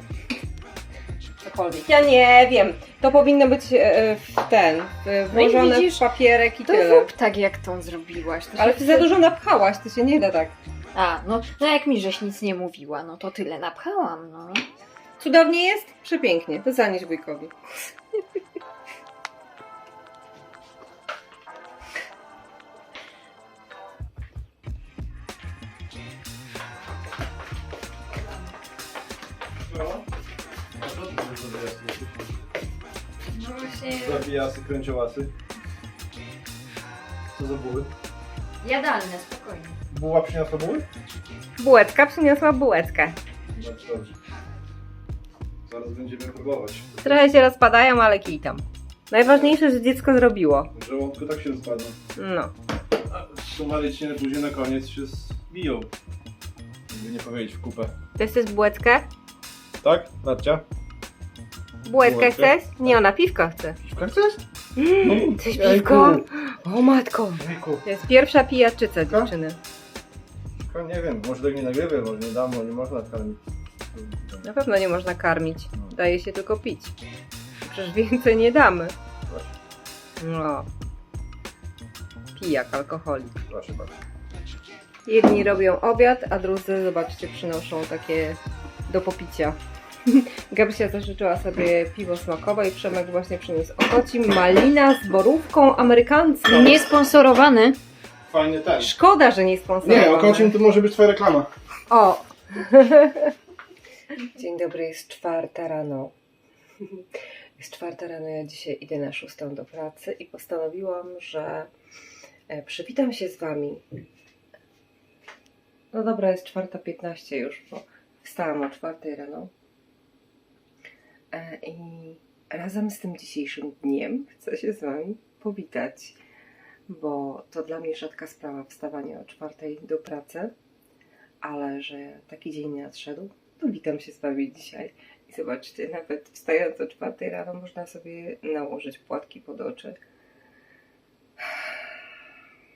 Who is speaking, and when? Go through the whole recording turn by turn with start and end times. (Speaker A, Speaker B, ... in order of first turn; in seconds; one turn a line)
Speaker A: 1.4-7.1
Speaker B: 5.3-6.0
Speaker B: 6.7-9.1
Speaker A: 8.6-10.6
Speaker B: 10.9-14.6
Speaker A: 15.2-17.5
Speaker C: 29.6-30.1
Speaker C: 30.8-32.3
Speaker B: 33.3-34.3
Speaker C: 33.9-35.3
Speaker C: 37.3-37.9
Speaker B: 38.6-39.8
Speaker C: 39.9-40.9
Speaker A: 41.6-43.2
Speaker C: 43.5-44.1
Speaker C: 45.7-46.9
Speaker A: 47.0-50.7
Speaker C: 50.7-52.0
Speaker A: 52.2-52.5
Speaker C: 53.1-55.9
Speaker C: 56.9-57.9
Speaker A: 58.2-59.1
Speaker C: 59.8-60.6
Speaker A: 61.9-63.8
Speaker C: 62.0-62.5
Speaker C: 63.8-64.4
Speaker A: 64.8-69.6
Speaker C: 65.0-66.2
Speaker C: 67.4-67.8
Speaker C: 70.7-73.4
Speaker C: 73.9-74.4
Speaker A: 74.4-77.0
Speaker A: 77.6-78.9
Speaker C: 79.3-79.5
Speaker A: 80.2-80.7
Speaker A: 82.3-83.4
Speaker C: 83.5-84.0
Speaker A: 85.1-96.8
Speaker B: 96.5-97.8
Speaker C: 98.3-98.9
Speaker A: 98.8-100.6
Speaker C: 99.8-101.5
Speaker A: 101.9-103.3
Speaker A: 104.3-106.1
Speaker A: 107.6-111.7
Speaker A: 112.5-113.8
Speaker A: 115.9-119.5
Speaker A: 121.3-126.2
Speaker A: 126.9-130.5
Speaker A: 131.4-140.0
Speaker A: 141.4-141.8